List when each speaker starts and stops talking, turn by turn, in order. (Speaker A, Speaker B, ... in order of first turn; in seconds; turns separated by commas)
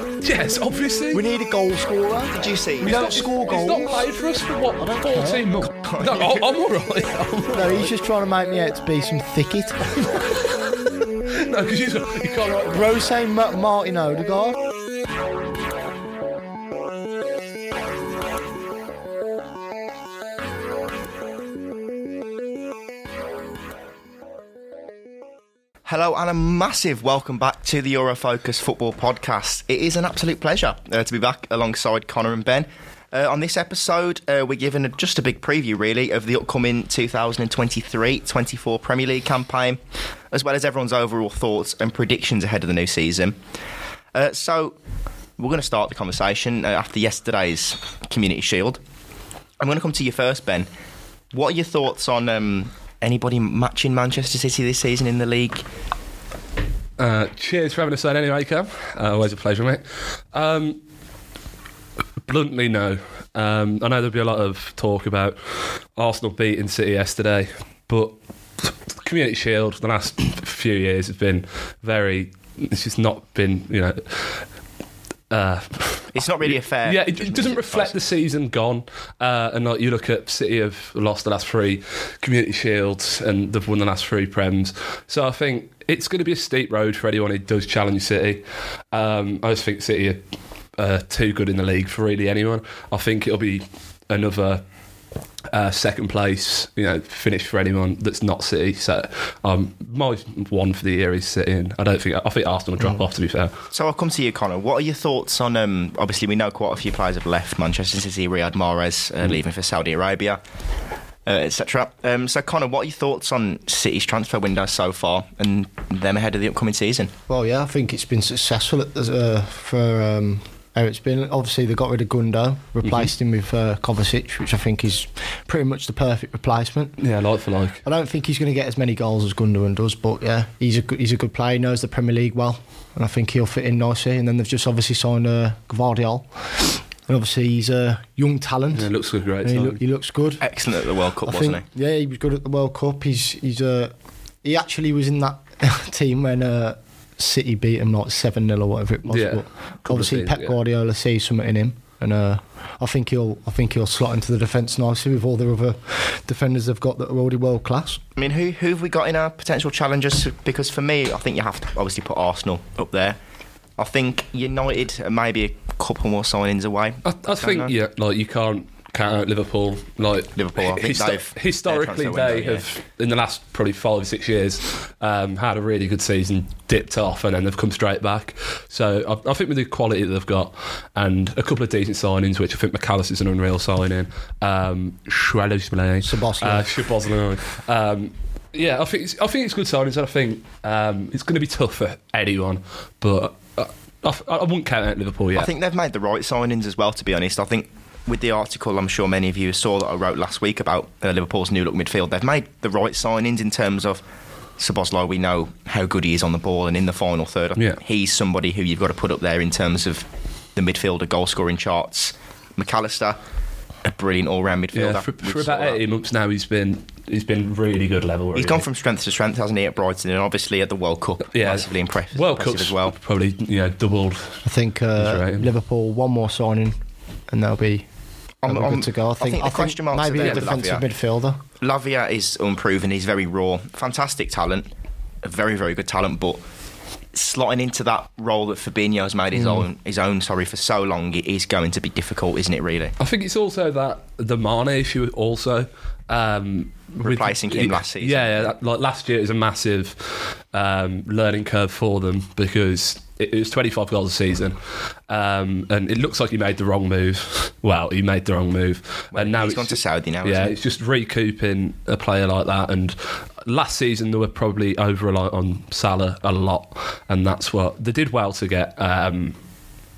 Speaker A: 0.2-1.2, Speaker B: 1.1-4.1, Speaker C: 2.3-3.2, Speaker A: 2.8-7.9, Speaker B: 4.8-5.5, Speaker C: 5.6-6.5, Speaker B: 7.5-10.1, Speaker A: 11.3-12.8, Speaker B: 12.7-14.6, Speaker C: 25.9-39.8, Speaker C: 40.3-43.4, Speaker C: 44.1-44.8, Speaker C: 45.4-48.8, Speaker C: 49.6-50.7, Speaker C: 51.3-55.6, Speaker A: 57.0-60.8, Speaker A: 62.2-74.5, Speaker A: 75.3-90.2, Speaker C: 76.1-78.0, Speaker A: 90.8-94.6, Speaker A: 95.5-103.5, Speaker C: 103.7-110.4, Speaker C: 111.2-117.1, Speaker B: 117.3-127.0, Speaker A: 127.0-127.8, Speaker B: 127.8-138.9, Speaker A: 138.7-139.8, Speaker B: 139.4-140.4, Speaker C: 140.4-141.6, Speaker B: 141.2-143.9, Speaker B: 144.4-158.0, Speaker A: 149.1-150.5, Speaker C: 158.2-163.2, Speaker C: 163.8-167.7, Speaker A: 167.0-195.5, Speaker C: 170.3-172.6, Speaker B: 186.0-186.9, Speaker C: 195.3-204.0, Speaker C: 204.6-213.2, Speaker C: 213.8-215.8, Speaker A: 214.7-218.7, Speaker C: 218.3-222.9, Speaker A: 221.2-224.4, Speaker B: 224.4-226.8, Speaker A: 225.0-225.5, Speaker B: 227.3-227.8, Speaker C: 228.4-230.8, Speaker B: 228.4-231.4, Speaker C: 231.6-234.7, Speaker C: 235.2-236.4, Speaker C: 237.1-242.9, Speaker A: 243.0-269.4, Speaker C: 247.0-248.5, Speaker C: 259.1-260.5